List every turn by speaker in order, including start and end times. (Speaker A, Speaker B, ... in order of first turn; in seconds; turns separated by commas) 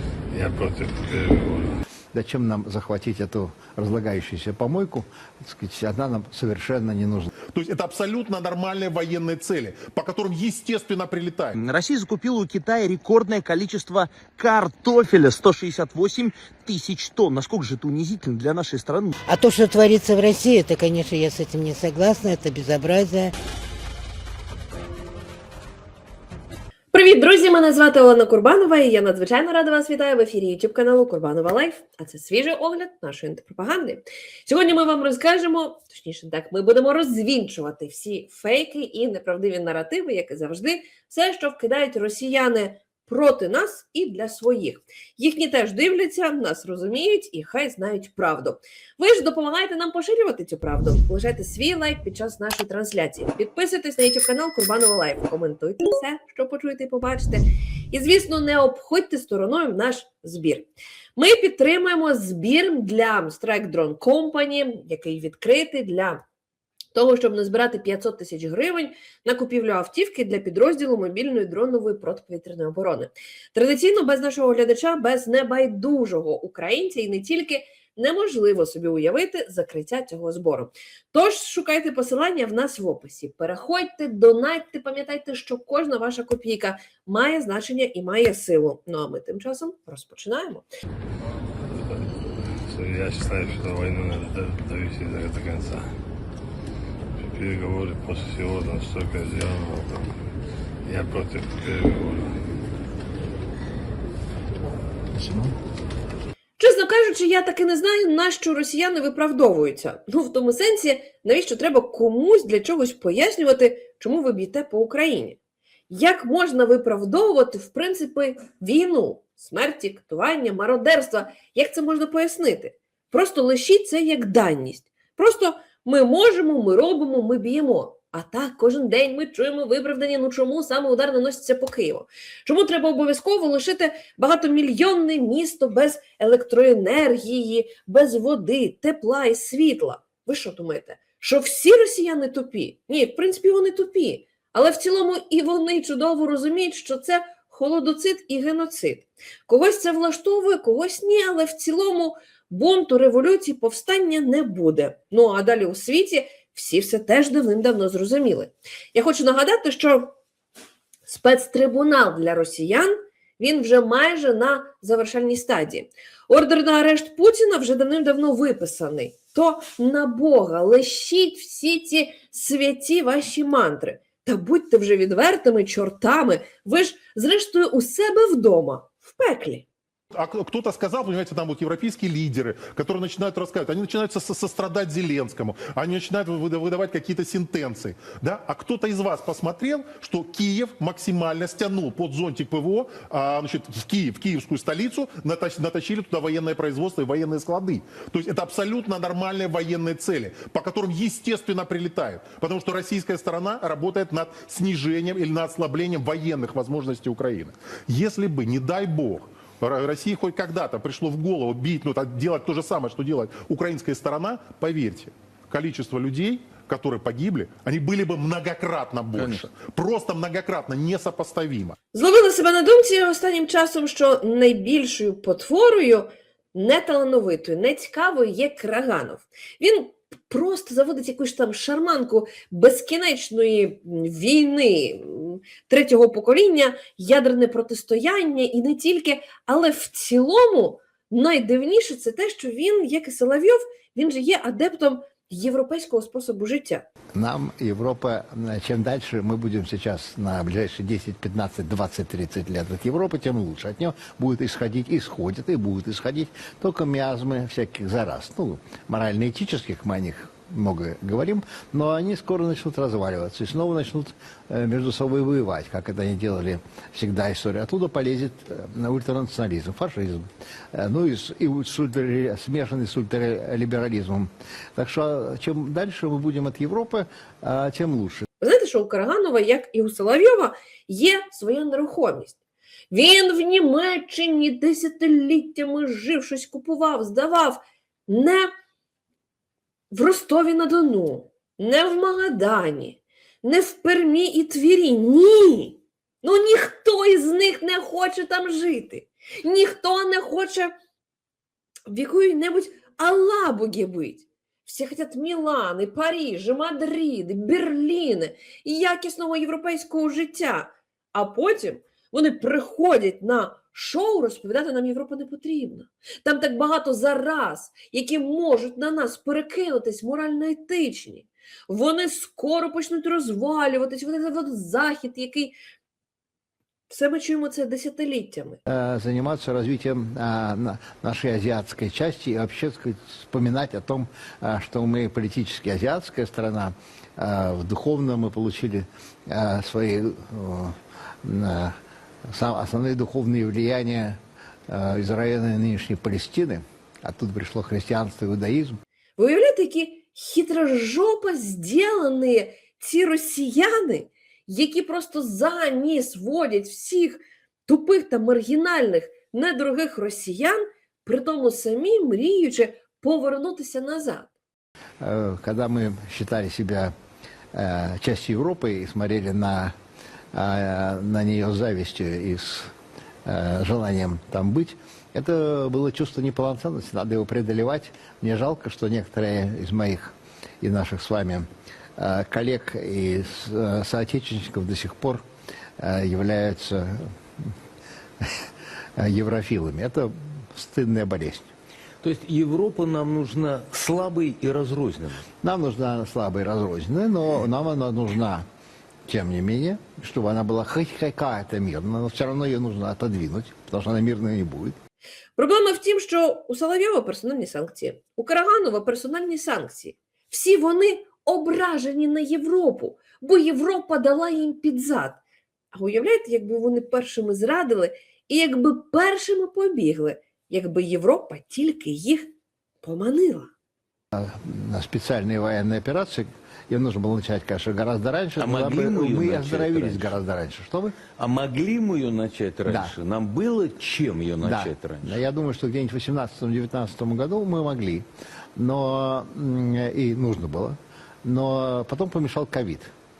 Speaker A: 0.3-1.7, Speaker B: 2.1-7.3, Speaker C: 7.5-11.6, Speaker D: 11.5-19.1, Speaker E: 19.3-23.3, Speaker F: 26.9-66.2, Speaker F: 66.9-90.7, Speaker A: 91.6-95.8, Speaker A: 97.2-100.1, Speaker A: 100.8-102.3, Speaker F: 106.6-115.4, Speaker F: 115.9-160.1, Speaker F: 161.1-179.7, Speaker C: 180.1-221.8, Speaker G: 219.2-219.4, Speaker F: 221.9-246.8, Speaker B: 247.1-278.2, Speaker F: 278.4-282.3, Speaker F: 282.9-288.5, Speaker F: 289.9-300.7, Speaker F: 301.9-325.5, Speaker F: 326.9-328.6, Speaker B: 328.6-341.8, Speaker B: 342.3-344.2, Speaker B: 344.7-348.8, Speaker F: 349.2-364.3, Speaker B: 365.0-366.9, Speaker B: 367.5-369.7, Speaker B: 370.3-372.7, Speaker B: 373.2-381.5, Speaker B: 382.0-385.2, Speaker B: 385.8-387.5, Speaker B: 389.0-391.5, Speaker G: 392.0-395.2, Speaker B: 395.4-398.4, Speaker B: 399.1-404.8, Speaker F: 405.4-415.2, Speaker F: 415.7-422.3, Speaker F: 422.8-423.5, Speaker B: 424.1-431.0, Speaker G: 428.4-430.2, Speaker G: 431.0-435.2, Speaker B: 432.6-432.9, Speaker B: 434.4-438.1, Speaker B: 438.6-442.9